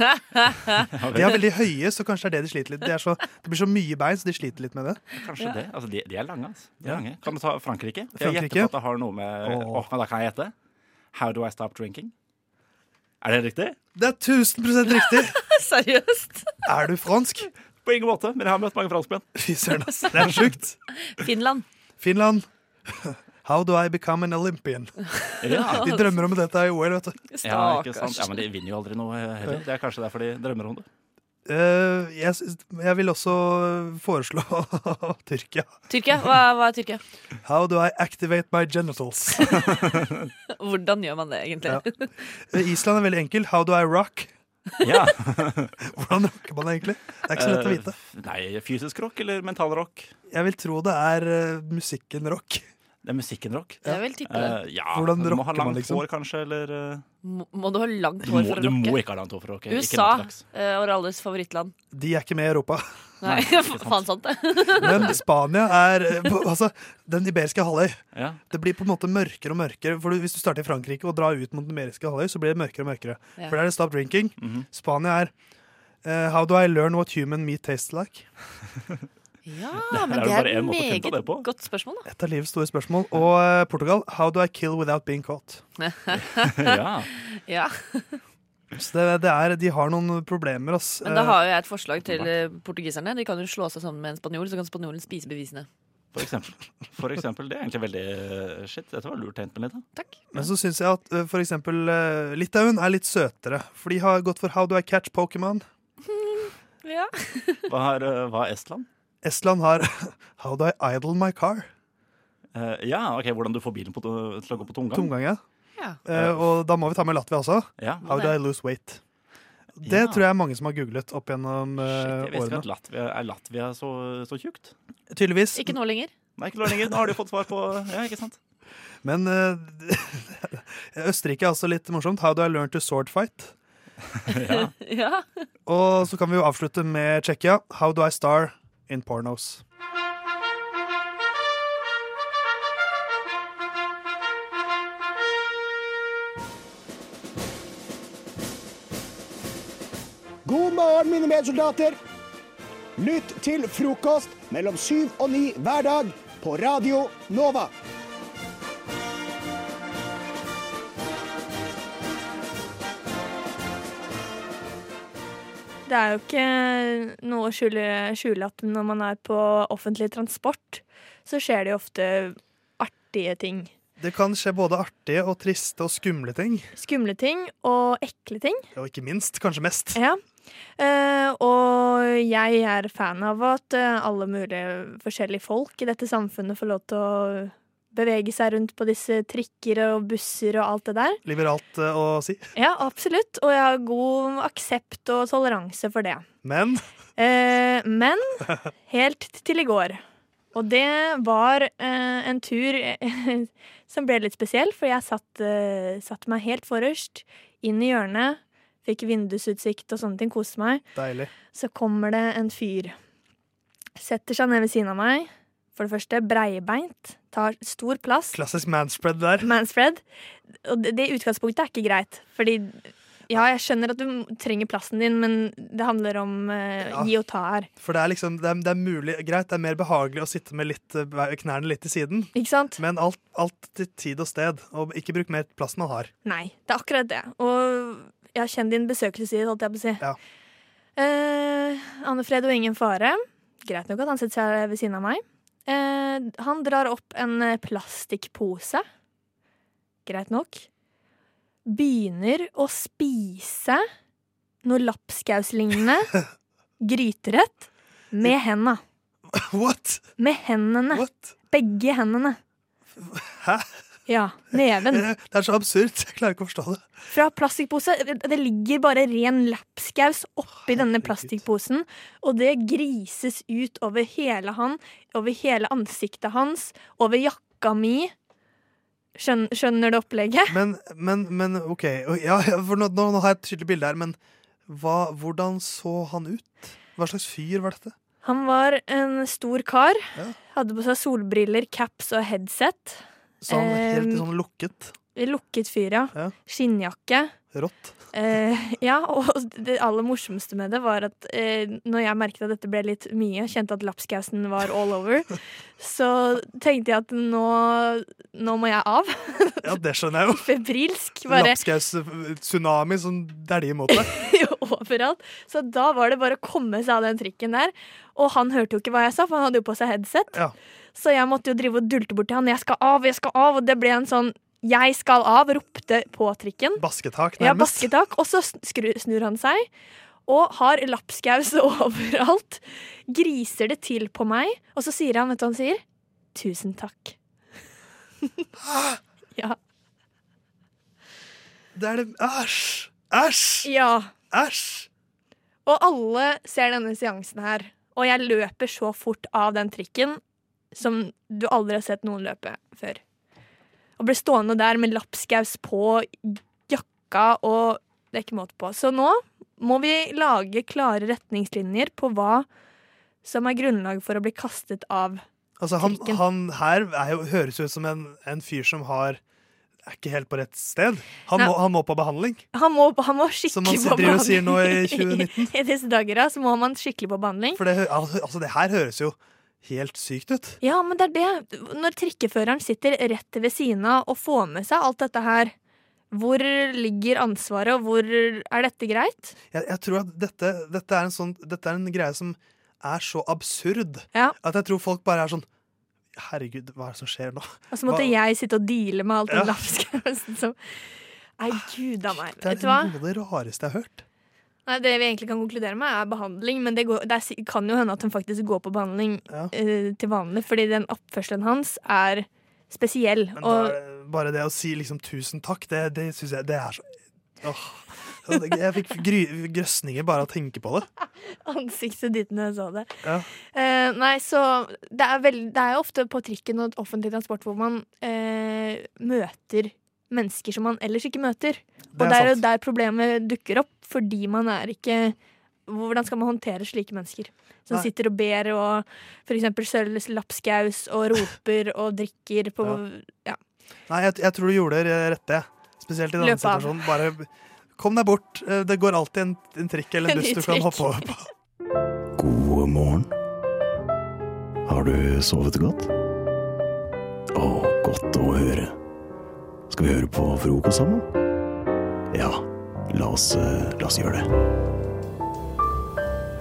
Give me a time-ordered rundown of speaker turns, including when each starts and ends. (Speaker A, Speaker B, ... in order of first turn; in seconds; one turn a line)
Speaker A: 0.1-0.7
Speaker B: 0.9-1.4
Speaker C: 1.1-5.0
Speaker B: 5.2-10.5
Speaker C: 8.2-8.7
Speaker C: 9.4-9.9
Speaker B: 11.1-12.1
Speaker B: 13.2-13.8
Speaker C: 14.0-15.4
Speaker A: 14.9-16.5
Speaker C: 16.7-17.5
Speaker B: 17.9-19.3
Speaker C: 19.4-20.8
Speaker A: 21.2-21.6
Speaker C: 22.0-25.0
Speaker B: 25.4-25.9
Speaker A: 25.5-26.2
Speaker C: 25.7-27.2
Speaker A: 27.3-28.4
Speaker B: 27.4-30.9
Speaker C: 31.5-35.7
Speaker A: 35.9-37.0
Speaker C: 37.4-39.6
Speaker B: 39.6-40.1
Speaker A: 40.5-42.1
Speaker C: 42.5-44.3
Speaker B: 44.8-45.7
Speaker C: 45.8-47.9
Speaker B: 47.3-50.1
Speaker C: 50.3-52.6
Speaker B: 53.0-57.0
Speaker A: 53.8-54.6
Speaker C: 54.9-56.0
Speaker A: 57.2-59.0
Speaker B: 58.2-60.4
Speaker A: 59.7-61.7
Speaker C: 61.9-62.8
Speaker A: 63.2-65.2
Speaker B: 63.2-64.1
Speaker B: 64.6-65.2
Speaker C: 64.8-75.3
Speaker B: 68.2-68.4
Speaker B: 74.4-74.7
Speaker C: 76.0-78.3
Speaker A: 79.5-82.1
Speaker B: 79.8-81.5
Speaker C: 82.1-85.6
Speaker A: 85.8-88.2
Speaker B: 86.4-87.1
Speaker C: 88.8-91.4
Speaker A: 91.0-95.7
Speaker B: 92.0-92.3
Speaker B: 96.2-99.8
Speaker A: 100.0-100.2
Speaker C: 100.3-105.6
Speaker A: 106.1-107.6
Speaker B: 107.7-108.9
Speaker C: 109.2-111.7
Speaker B: 112.5-115.1
Speaker C: 114.9-115.4
Speaker C: 116.1-119.0
Speaker B: 116.1-116.5
Speaker B: 117.8-118.1
Speaker A: 118.1-118.3
Speaker C: 119.8-122.7
Speaker B: 119.8-120.2
Speaker B: 121.8-124.7
Speaker C: 125.1-125.8
Speaker A: 125.5-126.1
Speaker B: 126.4-128.4
Speaker C: 129.0-133.6
Speaker B: 134.3-134.7
Speaker A: 134.4-135.2
Speaker C: 135.7-139.6
Speaker D: 150.5-152.0
Speaker D: 153.0-157.7
Speaker E: 165.9-173.7
Speaker C: 174.0-176.7
Speaker E: 176.8-178.7
Speaker C: 178.8-180.0
Speaker E: 179.9-180.2
Speaker E: 180.8-191.2
Speaker C: 191.2-192.5
Speaker E: 192.6-196.2
Speaker C: 196.4-196.8
Speaker E: 197.2-200.0
Speaker E: 200.5-210.8
Speaker C: 210.9-211.3
Speaker E: 211.5-212.9
Speaker E: 214.0-218.4
Speaker C: 218.3-219.5
Speaker E: 219.4-220.0
Speaker E: 220.6-227.7
Speaker C: 227.8-236.1
Speaker E: 232.3-232.8
Speaker E: 236.2-240.0
Speaker E: 241.0-248.8
Speaker E: 250.1-250.7
Speaker E: 251.7-253.8
Speaker E: 254.6-256.1
Speaker E: 256.8-258.8
Speaker C: 259.3-260.1
Speaker E: 260.2-262.4
Speaker C: 260.9-261.3
Speaker C: 262.9-263.7
Speaker E: 264.1-265.1
Speaker C: 264.5-266.9
Speaker E: 267.1-278.1
Speaker C: 270.7-271.4
Speaker E: 279.2-280.6
Speaker C: 280.5-287.9
Speaker E: 288.2-294.2
Speaker C: 293.4-294.9
Speaker E: 295.1-297.4
Speaker C: 297.5-298.0
Speaker E: 298.1-309.7
Speaker C: 309.6-310.5
Speaker E: 310.3-311.6
Speaker C: 311.3-314.1
Speaker E: 313.9-320.4
Speaker E: 320.9-326.8
Speaker C: 326.8-327.9
Speaker E: 327.4-329.7
Speaker E: 330.3-335.8
Speaker E: 336.4-337.2
Speaker C: 338.6-339.0
Speaker C: 341.7-343.7
Speaker E: 343.6-344.1
Speaker C: 344.3-344.9
Speaker E: 345.7-350.2
Speaker E: 350.8-353.0
Speaker E: 354.0-362.5
Speaker E: 363.2-365.2
Speaker C: 365.6-369.2
Speaker E: 365.8-366.2
Speaker C: 369.9-372.4
Speaker E: 372.5-377.6
Speaker C: 373.5-375.5
Speaker C: 377.6-380.6
Speaker E: 380.6-385.5
Speaker E: 386.1-389.4
Speaker C: 389.5-395.5
Speaker C: 396.1-398.1
Speaker E: 397.7-400.6
Speaker C: 399.3-399.6
Speaker E: 401.4-402.9
Speaker C: 402.3-404.1
Speaker E: 404.7-413.8
Speaker C: 413.4-416.9
Speaker C: 417.4-420.9
Speaker E: 421.4-423.0
Speaker E: 423.5-435.2
Speaker C: 431.9-432.4
Speaker E: 435.7-443.4
Speaker C: 443.9-451.3
Speaker E: 446.2-446.9
Speaker E: 450.1-451.1
Speaker F: 452.2-453.1
Speaker F: 454.7-455.9
Speaker F: 457.4-458.7
Speaker F: 459.7-461.1
Speaker F: 462.1-464.3